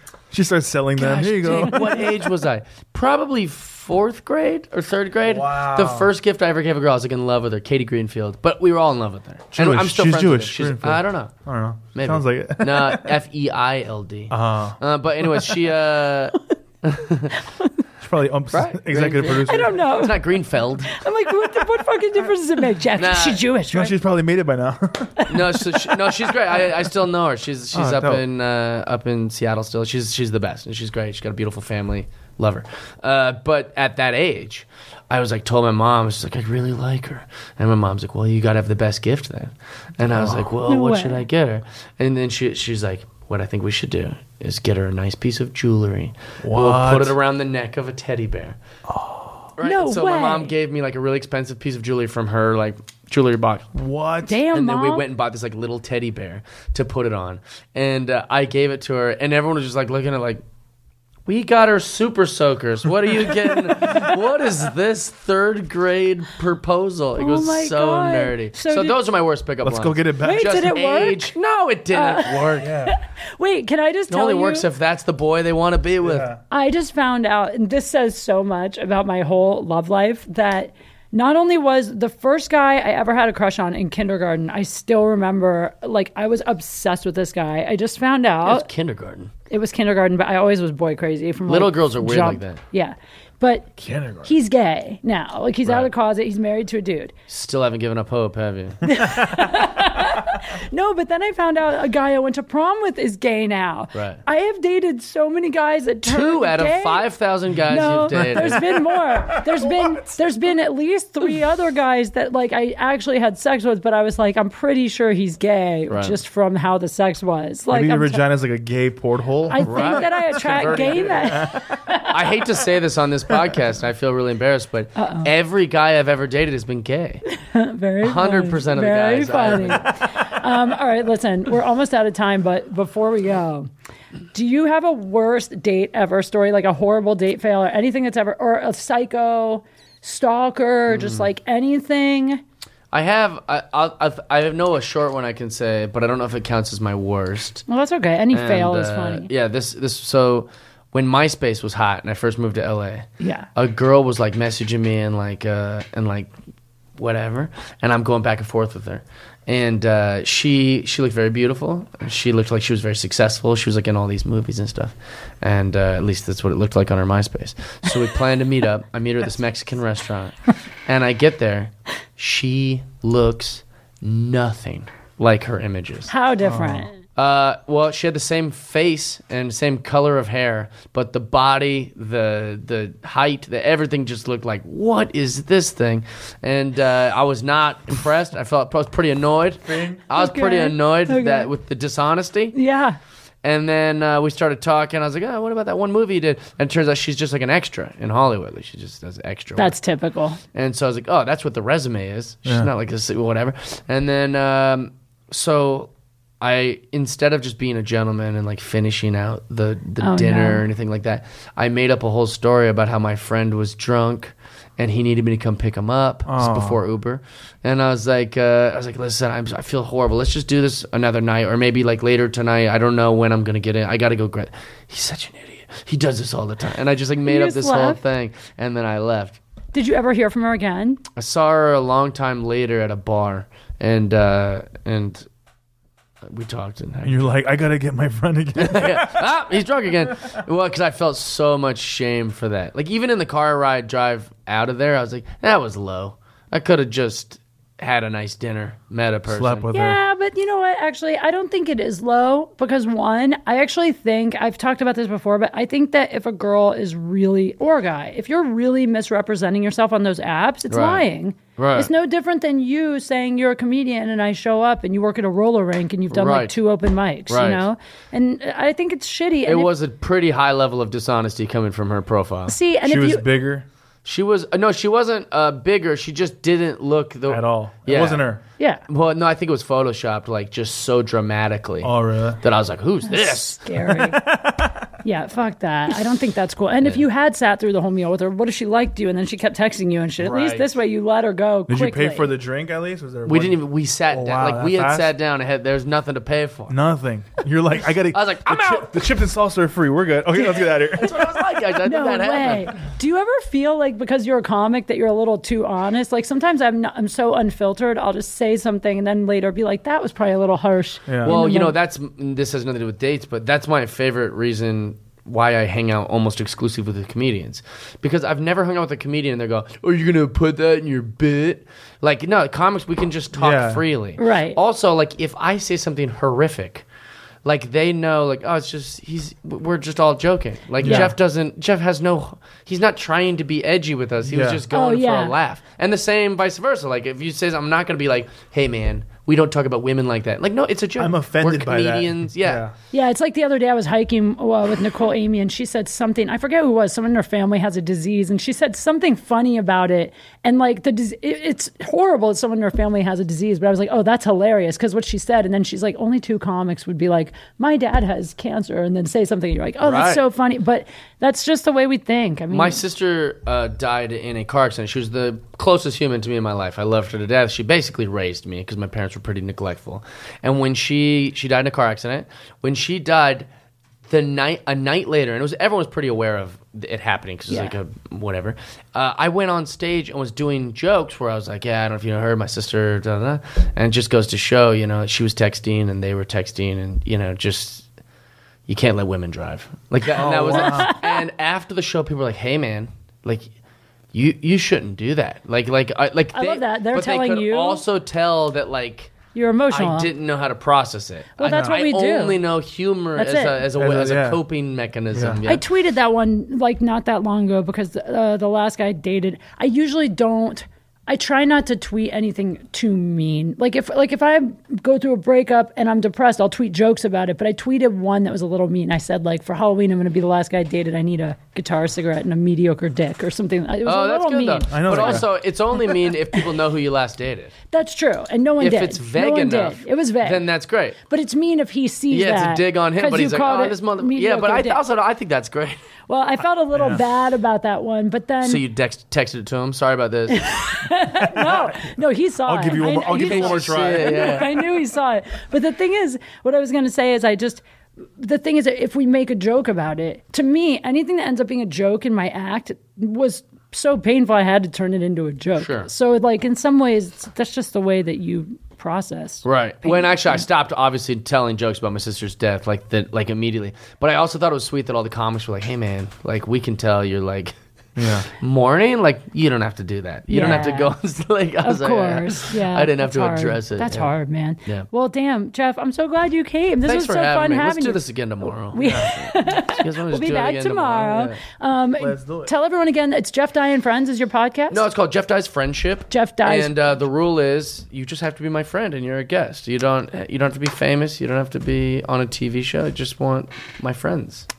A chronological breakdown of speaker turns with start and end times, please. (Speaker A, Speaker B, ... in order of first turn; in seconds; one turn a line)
Speaker A: 0.3-2.2
Speaker B: 1.0-11.3
Speaker A: 5.2-6.1
Speaker A: 9.5-13.2
Speaker B: 11.9-17.4
Speaker A: 14.3-15.7
Speaker C: 17.4-17.7
Speaker A: 18.0-19.9
Speaker B: 18.5-21.0
Speaker C: 19.4-23.9
Speaker B: 23.0-23.4
Speaker A: 23.7-25.7
Speaker B: 25.3-48.6
Speaker A: 27.7-28.2
Speaker A: 40.0-40.5
Speaker C: 40.6-41.2
Speaker A: 46.4-47.1
Speaker A: 48.9-49.5
Speaker B: 49.6-53.7
Speaker C: 49.6-50.5
Speaker A: 53.7-54.4
Speaker C: 54.2-55.0
Speaker B: 54.5-60.4
Speaker B: 61.3-72.7
Speaker C: 67.2-69.0
Speaker A: 69.6-70.7
Speaker C: 70.2-71.3
Speaker C: 71.9-74.7
Speaker A: 72.6-72.9
Speaker B: 74.1-76.3
Speaker A: 76.0-76.4
Speaker C: 76.5-88.7
Speaker B: 88.4-89.3
Speaker C: 89.5-93.7
Speaker B: 91.5-92.6
Speaker A: 93.8-94.3
Speaker C: 94.2-97.1
Speaker B: 97.3-98.9
Speaker C: 98.8-107.0
Speaker B: 103.9-104.2
Speaker B: 106.0-108.7
Speaker C: 107.7-118.2
Speaker A: 108.1-110.0
Speaker B: 115.9-116.2
Speaker A: 117.7-120.0
Speaker C: 119.5-122.2
Speaker B: 119.6-121.5
Speaker A: 121.3-121.8
Speaker B: 122.0-127.2
Speaker C: 125.0-125.3
Speaker C: 127.3-133.7
Speaker B: 128.0-129.9
Speaker C: 134.3-142.4
Speaker B: 140.9-141.2
Speaker B: 142.9-147.6
Speaker C: 147.7-149.3
Speaker B: 148.3-156.3
Speaker C: 153.2-153.5
Speaker B: 157.0-176.1
Speaker C: 176.1-177.0
Speaker A: 176.4-176.9
Speaker B: 177.1-192.5
Speaker A: 189.7-190.0
Speaker C: 190.1-191.5
Speaker C: 192.5-193.0
Speaker B: 193.4-199.7
Speaker C: 199.6-200.4
Speaker B: 200.5-205.9
Speaker B: 206.4-229.4
Speaker C: 210.0-210.6
Speaker A: 216.2-216.8
Speaker C: 227.2-228.0
Speaker C: 229.7-231.0
Speaker B: 231.2-235.2
Speaker B: 236.2-237.2
Speaker A: 237.0-239.3
Speaker B: 238.6-249.7
Speaker A: 240.0-240.4
Speaker A: 249.3-250.0
Speaker C: 249.7-269.7
Speaker B: 260.7-261.1
Speaker B: 261.6-261.9
Speaker B: 266.1-266.6
Speaker B: 267.3-267.6
Speaker B: 269.4-272.5
Speaker C: 272.5-273.2
Speaker A: 272.8-273.6
Speaker B: 274.0-278.3
Speaker A: 277.3-278.4
Speaker B: 278.9-283.6
Speaker A: 281.8-282.4
Speaker C: 283.0-284.2
Speaker A: 283.9-284.9
Speaker C: 285.0-292.3
Speaker B: 290.2-290.7
Speaker A: 291.7-295.1
Speaker B: 293.3-296.8
Speaker A: 296.7-301.3
Speaker B: 298.1-298.9
Speaker C: 300.4-301.2
Speaker B: 300.6-302.7
Speaker C: 301.8-311.7
Speaker A: 311.1-311.4
Speaker B: 311.2-326.8
Speaker A: 323.3-323.8
Speaker C: 324.2-324.6
Speaker B: 327.4-342.6
Speaker A: 330.8-331.1
Speaker A: 334.3-334.6
Speaker C: 334.7-335.3
Speaker A: 341.0-342.7
Speaker C: 342.9-362.8
Speaker B: 359.8-360.2
Speaker B: 362.5-373.5
Speaker B: 374.1-387.9
Speaker B: 388.7-393.5
Speaker A: 390.1-390.9
Speaker C: 390.5-391.2
Speaker B: 394.1-399.2
Speaker C: 396.3-397.8
Speaker C: 399.3-400.1
Speaker B: 399.7-405.6
Speaker C: 401.4-402.4
Speaker A: 401.4-401.8
Speaker C: 403.1-403.6
Speaker A: 403.7-404.4
Speaker A: 405.1-405.4
Speaker C: 405.4-425.2
Speaker B: 423.9-427.5
Speaker A: 424.7-425.2
Speaker C: 427.7-430.4
Speaker B: 428.6-431.0
Speaker C: 431.0-434.8
Speaker B: 432.1-435.8
Speaker C: 436.1-438.6
Speaker A: 436.7-437.0
Speaker B: 438.4-440.5
Speaker C: 440.3-447.6
Speaker A: 442.4-444.4
Speaker B: 443.1-444.6
Speaker C: 448.2-460.4
Speaker B: 455.6-455.9
Speaker B: 459.4-467.5
Speaker A: 467.9-468.3
Speaker B: 468.2-474.1
Speaker C: 470.3-470.9
Speaker C: 471.6-484.8
Speaker B: 476.8-481.4
Speaker A: 482.0-482.5
Speaker B: 484.7-494.5
Speaker C: 486.1-486.7